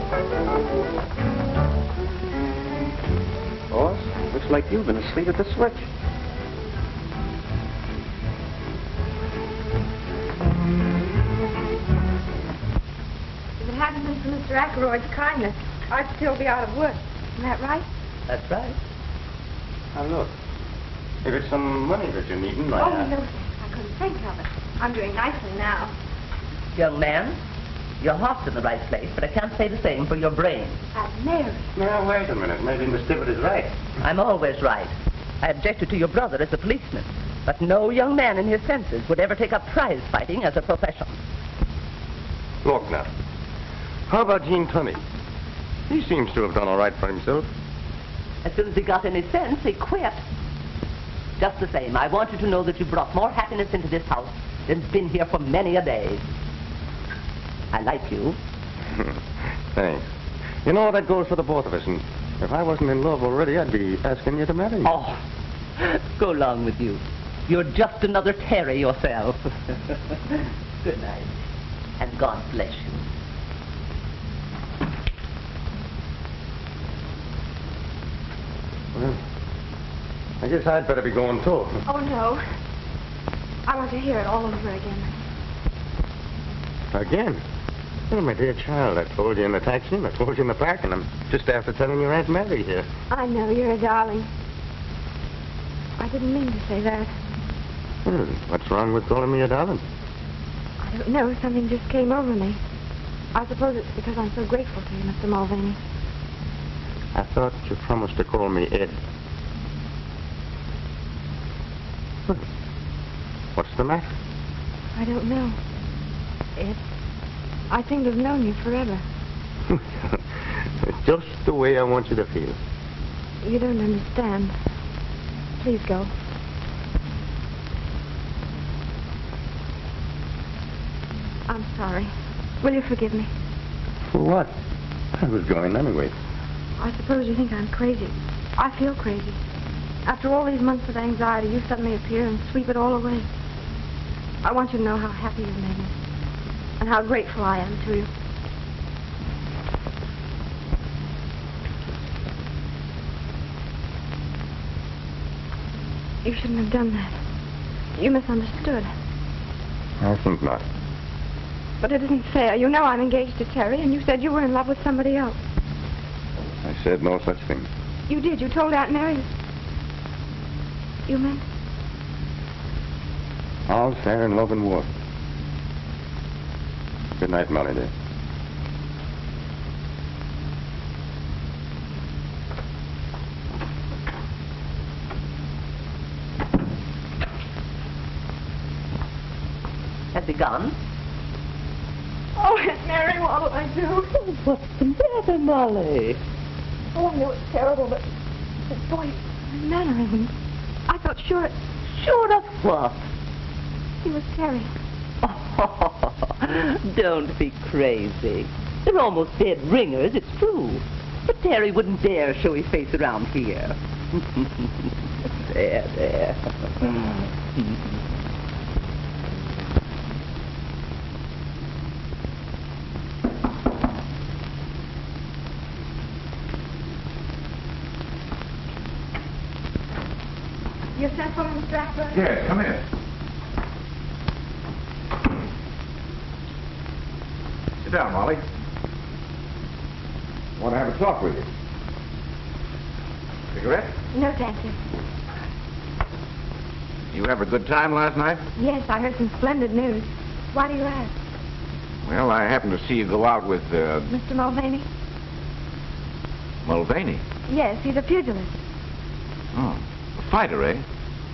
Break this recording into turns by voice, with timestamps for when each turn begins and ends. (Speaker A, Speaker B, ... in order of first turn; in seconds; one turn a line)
Speaker A: 3.7-5.8
Speaker B: 13.6-17.8
Speaker C: 18.3-18.8
Speaker D: 19.9-20.3
Speaker D: 21.2-23.1
Speaker B: 22.8-25.9
Speaker C: 26.7-27.4
Speaker C: 28.0-30.8
Speaker B: 30.9-31.6
Speaker D: 31.7-33.7
Speaker C: 34.0-41.1
Speaker D: 42.6-43.1
Speaker D: 44.1-45.0
Speaker D: 45.9-47.5
Speaker C: 48.4-50.2
Speaker C: 51.4-56.2
Speaker C: 57.7-58.4
Speaker D: 59.7-60.1
Speaker D: 60.6-64.9
Speaker C: 64.8-65.2
Speaker C: 65.8-71.3
Speaker C: 72.0-72.9
Speaker D: 78.9-79.2
Speaker D: 80.4-81.8
Speaker B: 81.8-82.4
Speaker B: 83.7-85.1
Speaker D: 86.9-87.4
Speaker D: 88.1-92.9
Speaker B: 93.1-94.3
Speaker B: 96.0-97.1
Speaker D: 98.0-99.8
Speaker B: 100.8-102.6
Speaker B: 103.3-105.8
Speaker D: 107.1-109.0
Speaker D: 113.5-114.1
Speaker B: 114.9-115.6
Speaker B: 117.7-119.0
Speaker D: 119.7-120.2
Speaker D: 120.8-122.6
Speaker B: 123.4-124.5
Speaker B: 125.6-126.1
Speaker B: 131.5-133.3
Speaker D: 134.1-134.5
Speaker D: 135.2-136.1
Speaker B: 136.8-139.4
Speaker B: 140.0-143.3
Speaker B: 144.4-145.9
Speaker B: 146.8-148.1
Speaker B: 156.2-157.2
Speaker B: 158.0-158.9
Speaker D: 160.0-160.6
Speaker B: 161.8-165.4
Speaker D: 166.6-167.7
Speaker B: 168.1-169.3
Speaker B: 171.1-171.4
Speaker D: 173.7-174.9
Speaker D: 177.2-177.9
Speaker C: 190.1-190.7
Speaker B: 192.4-194.1
Speaker C: 194.2-196.2
Speaker B: 196.9-198.0
Speaker B: 198.7-200.3
Speaker B: 200.9-201.5
Speaker C: 202.0-203.0
Speaker B: 204.0-204.7
Speaker C: 205.2-214.7
Speaker C: 215.3-217.0
Speaker B: 230.9-232.2
Speaker E: 232.1-232.8
Speaker E: 237.8-238.4
Speaker E: 240.6-241.5
Speaker E: 243.5-243.9
Speaker B: 244.1-244.8
Speaker E: 247.1-248.4
Speaker B: 248.6-251.1
Speaker E: 252.0-254.1
Speaker B: 254.1-254.8
Speaker E: 256.6-257.2
Speaker B: 257.5-258.5
Speaker E: 259.5-260.8